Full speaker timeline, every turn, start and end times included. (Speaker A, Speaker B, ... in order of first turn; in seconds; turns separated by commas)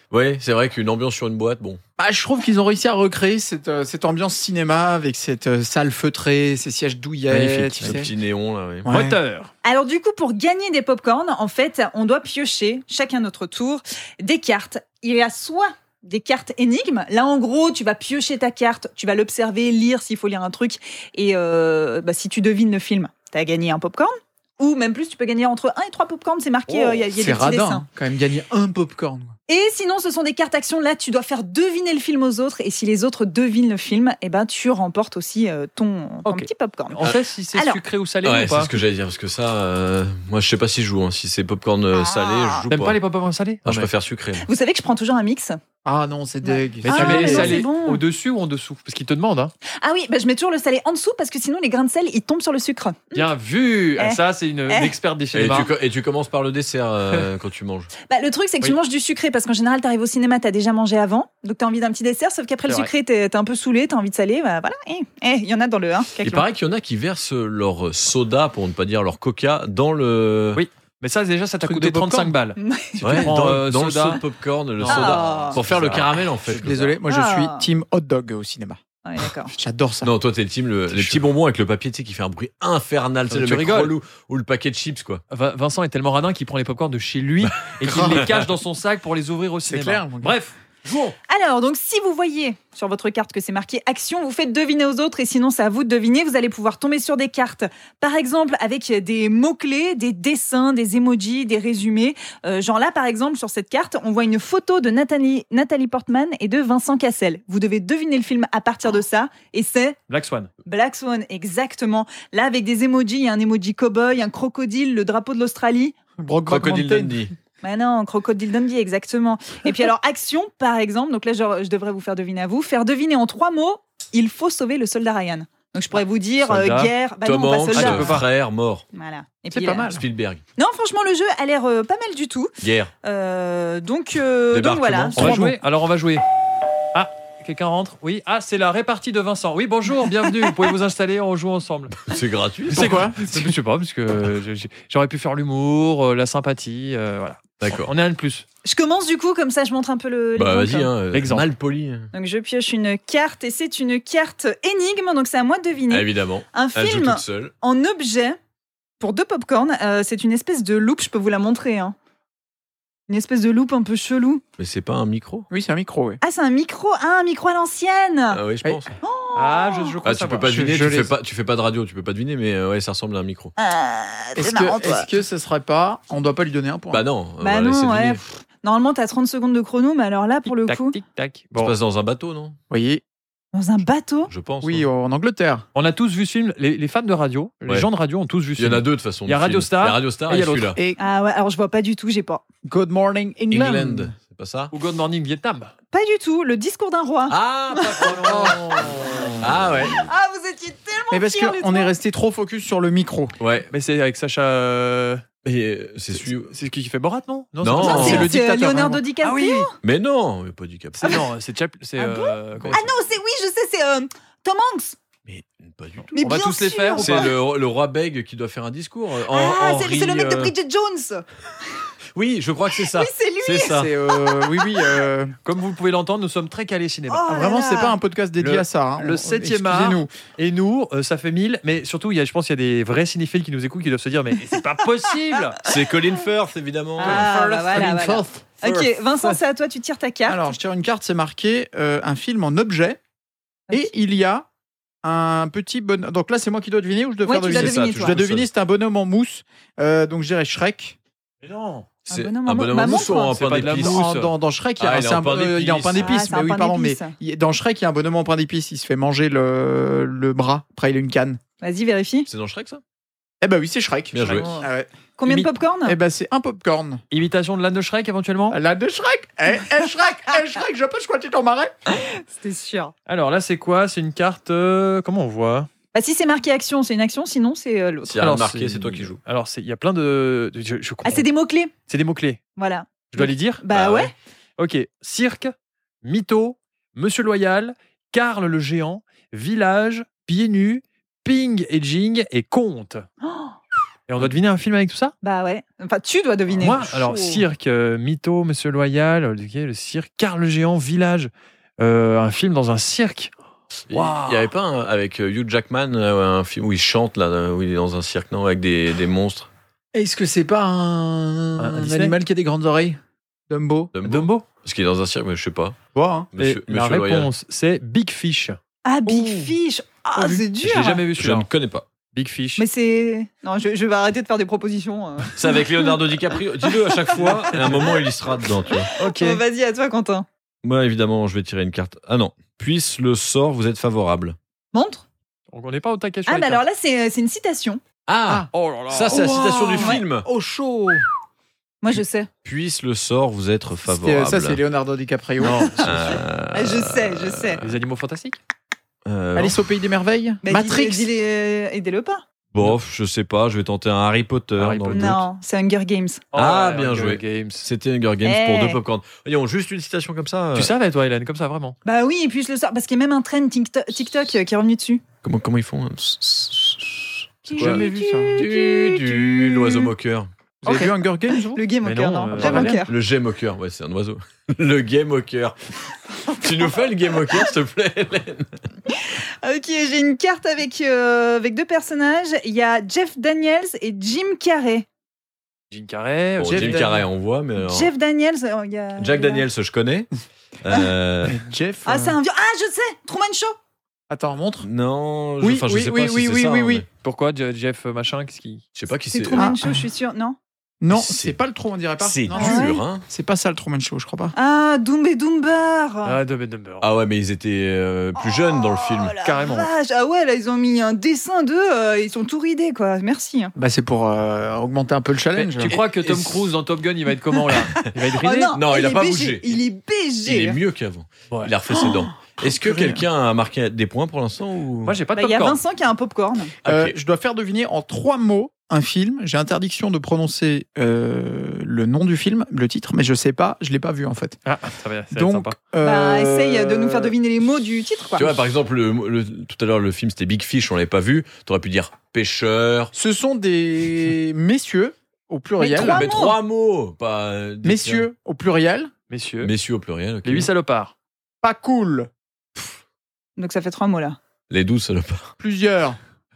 Speaker A: 0.1-1.8, Speaker B: 2.0-8.1, Speaker C: 7.3-8.1, Speaker A: 7.8-8.9, Speaker B: 8.8-9.2, Speaker C: 8.9-9.5, Speaker D: 9.6-27.9, Speaker C: 26.7-27.1, Speaker B: 27.1-29.4, Speaker D: 29.5-37.8, Speaker C: 36.9-38.8, Speaker A: 38.2-43.0, Speaker D: 42.0-42.6, Speaker C: 42.7-43.9, Speaker A: 43.6-44.5, Speaker D: 44.4-45.6, Speaker B: 45.9-47.7, Speaker D: 46.5-48.0, Speaker C: 46.8-49.5, Speaker D: 49.8-53.3, Speaker C: 53.1-55.7, Speaker D: 54.0-54.9, Speaker A: 55.3-57.9, Speaker D: 58.1-66.5, Speaker C: 62.6-62.9, Speaker A: 66.2-70.6, Speaker C: 70.5-74.2, Speaker B: 71.6-72.4, Speaker D: 72.6-73.2, Speaker A: 73.0-76.9, Speaker C: 74.8-76.8, Speaker D: 74.9-75.6, Speaker B: 76.6-78.8, Speaker D: 77.1-77.7, Speaker D: 79.0-79.5, Speaker B: 79.5-80.1, Speaker A: 80.0-85.2, Speaker C: 80.9-81.2, Speaker C: 83.3-83.9, Speaker C: 85.3-91.2, Speaker A: 87.4-88.4, Speaker B: 87.8-88.4, Speaker B: 89.7-90.4, Speaker D: 91.3-110.0, Speaker C: 110.1-110.5, Speaker D: 110.7-116.0, Speaker B: 116.2-117.3, Speaker A: 116.5-117.3, Speaker D: 117.6-128.2, Speaker C: 126.4-126.9, Speaker A: 127.2-128.9, Speaker C: 127.7-128.3, Speaker D: 128.9-129.9, Speaker B: 129.5-130.0, Speaker A: 129.9-130.4, Speaker D: 130.6-132.5, Speaker A: 132.6-132.9, Speaker D: 133.0-135.3, Speaker A: 134.5-135.4, Speaker C: 135.2-136.2, Speaker B: 135.2-135.6, Speaker C: 136.9-142.1, Speaker A: 142.0-143.1, Speaker B: 142.7-143.6, Speaker C: 142.7-148.4, Speaker A: 147.6-147.9, Speaker D: 148.7-150.9, Speaker A: 150.3-152.1, Speaker C: 151.1-151.5, Speaker D: 152.1-158.4, Speaker A: 155.9-157.5, Speaker D: 159.0-161.9, Speaker D: 163.1-164.4, Speaker A: 164.6-165.5, Speaker B: 165.5-166.2, Speaker D: 166.2-168.4, Speaker A: 168.3-169.0, Speaker D: 169.0-170.0, Speaker C: 169.3-170.6, Speaker A: 170.1-173.6, Speaker B: 170.5-171.1, Speaker D: 173.6-175.1, Speaker B: 174.4-177.1, Speaker A: 176.9-178.2, Speaker D: 177.4-181.0, Speaker C: 180.5-181.8, Speaker A: 181.6-182.6, Speaker B: 182.7-183.0, Speaker D: 183.5-184.3, Speaker A: 184.3-184.9, Speaker B: 184.6-185.7, Speaker C: 185.8-190.8, Speaker A: 188.6-190.8, Speaker B: 190.8-191.0, Speaker D: 191.0-192.4, Speaker B: 192.7-194.1, Speaker A: 193.5-194.7, Speaker C: 194.7-195.7, Speaker D: 195.9-198.6, Speaker A: 197.3-200.0, Speaker C: 198.0-199.4, Speaker D: 199.9-201.9, Speaker B: 201.1-203.3, Speaker A: 203.4-203.7, Speaker C: 203.7-205.2, Speaker A: 205.4-206.5, Speaker C: 206.2-208.3, Speaker A: 207.6-208.3, Speaker B: 207.7-209.0, Speaker D: 207.8-209.8, Speaker C: 209.2-209.7, Speaker A: 209.8-211.2, Speaker C: 211.0-212.9, Speaker D: 212.0-215.0, Speaker A: 215.3-216.3, Speaker C: 216.1-217.3, Speaker D: 216.1-217.3, Speaker A: 217.0-220.5, Speaker D: 219.3-221.3, Speaker A: 222.2-223.9, Speaker D: 222.9-225.0, Speaker B: 223.7-225.4, Speaker C: 225.4-227.3, Speaker D: 227.1-228.0, Speaker B: 227.3-230.1, Speaker C: 228.4-235.7, Speaker A: 235.6-237.3, Speaker B: 237.0-239.4, Speaker D: 237.0-240.6, Speaker B: 240.3-243.0, Speaker B: 243.7-244.5, Speaker B: 245.0-251.0, Speaker D: 247.2-248.2, Speaker A: 247.5-248.5, Speaker C: 251.4-251.9, Speaker D: 252.1-253.4, Speaker A: 252.1-254.0, Speaker C: 253.3-254.3, Speaker B: 253.8-261.4, Speaker A: 254.8-256.1, Speaker D: 256.0-257.1, Speaker D: 261.6-262.3, Speaker A: 262.3-262.8, Speaker B: 263.4-267.0, Speaker A: 264.1-264.6, Speaker C: 264.2-264.6, Speaker D: 265.2-266.0, Speaker C: 267.1-268.6, Speaker B: 268.5-271.8, Speaker D: 271.9-272.9, Speaker C: 273.1-275.7, Speaker D: 275.9-278.2, Speaker A: 278.0-279.2, Speaker C: 278.2-281.3, Speaker D: 281.1-281.7, Speaker C: 281.9-282.4, Speaker D: 282.6-284.1, Speaker C: 283.1-283.6, Speaker A: 283.7-284.1, Speaker C: 284.6-293.1, Speaker D: 293.2-293.6, Speaker C: 294.1-295.1, Speaker D: 295.2-297.4, Speaker C: 296.6-303.3, Speaker A: 303.9-309.5, Speaker C: 303.9-304.5, Speaker B: 309.9-313.9, Speaker C: 311.6-312.2, Speaker A: 313.9-315.8, Speaker C: 314.0-314.4, Speaker B: 315.9-316.3, Speaker A: 316.3-317.3, Speaker C: 316.4-318.6, Speaker D: 318.9-321.0, Speaker B: 319.1-319.5, Speaker B: 320.1-320.5, Speaker C: 320.6-321.5, Speaker A: 320.6-321.9, Speaker C: 322.1-322.6, Speaker D: 322.6-326.0, Speaker A: 325.3-328.9, Speaker D: 326.7-328.1, Speaker C: 327.2-327.9, Speaker D: 328.7-330.3, Speaker C: 329.0-329.4, Speaker A: 330.6-334.4, Speaker D: 334.7-335.0, Speaker C: 335.5-336.6, Speaker D: 336.3-337.8, Speaker A: 338.1-340.3, Speaker C: 338.5-339.4, Speaker B: 339.1-341.0, Speaker D: 341.8-342.3, Speaker A: 342.4-344.6, Speaker B: 343.9-345.9, Speaker C: 345.4-346.2, Speaker A: 345.8-347.7, Speaker D: 346.1-347.6, Speaker C: 347.6-348.4, Speaker A: 349.1-349.6, Speaker B: 349.4-351.1, Speaker D: 350.4-352.2, Speaker A: 352.5-355.2, Speaker C: 354.6-355.2, Speaker D: 354.9-356.2, Speaker C: 356.3-357.7, Speaker A: 356.3-360.7, Speaker D: 358.2-358.8, Speaker C: 360.5-361.8, Speaker D: 361.9-365.0, Speaker A: 365.2-370.3, Speaker D: 367.5-369.9, Speaker B: 367.5-368.4, Speaker B: 370.6-371.6, Speaker D: 370.6-372.9, Speaker C: 371.8-372.8, Speaker B: 372.4-372.8, Speaker A: 372.5-375.6, Speaker D: 376.2-376.8, Speaker A: 376.4-378.6, Speaker D: 378.9-384.9, Speaker C: 385.7-386.9, Speaker A: 386.4-387.9, Speaker B: 386.4-387.1, Speaker D: 387.6-389.4, Speaker A: 389.0-390.1, Speaker A: 390.6-391.4, Speaker B: 391.2-392.2, Speaker D: 391.9-393.6, Speaker B: 394.1-394.7, Speaker A: 394.6-396.9, Speaker B: 395.4-396.9, Speaker C: 397.0-398.6, Speaker A: 398.8-399.5, Speaker D: 399.1-400.4, Speaker B: 399.3-399.8, Speaker B: 400.8-404.4, Speaker A: 400.9-401.4, Speaker A: 402.0-403.1, Speaker D: 402.4-402.8, Speaker D: 404.3-406.2, Speaker C: 406.1-406.9, Speaker A: 406.8-409.1, Speaker D: 408.2-413.5, Speaker C: 409.2-409.7, Speaker B: 413.6-415.7, Speaker C: 415.4-418.6, Speaker A: 415.6-416.5, Speaker D: 417.8-420.6, Speaker A: 418.5-419.6, Speaker A: 420.2-425.0, Speaker B: 422.4-423.0, Speaker C: 424.9-425.6, Speaker D: 425.2-426.5, Speaker A: 426.6-426.9, Speaker B: 426.6-434.4, Speaker C: 434.5-435.6, Speaker B: 435.1-437.1, Speaker D: 435.8-438.4, Speaker A: 438.2-442.9, Speaker B: 442.9-446.0, Speaker D: 445.6-446.4, Speaker A: 445.8-448.1, Speaker B: 447.6-448.9, Speaker C: 449.1-449.5, Speaker A: 449.4-450.5, Speaker C: 450.2-450.9, Speaker B: 451.4-452.1, Speaker D: 453.4-454.2, Speaker A: 454.5-455.3, Speaker B: 455.4-456.0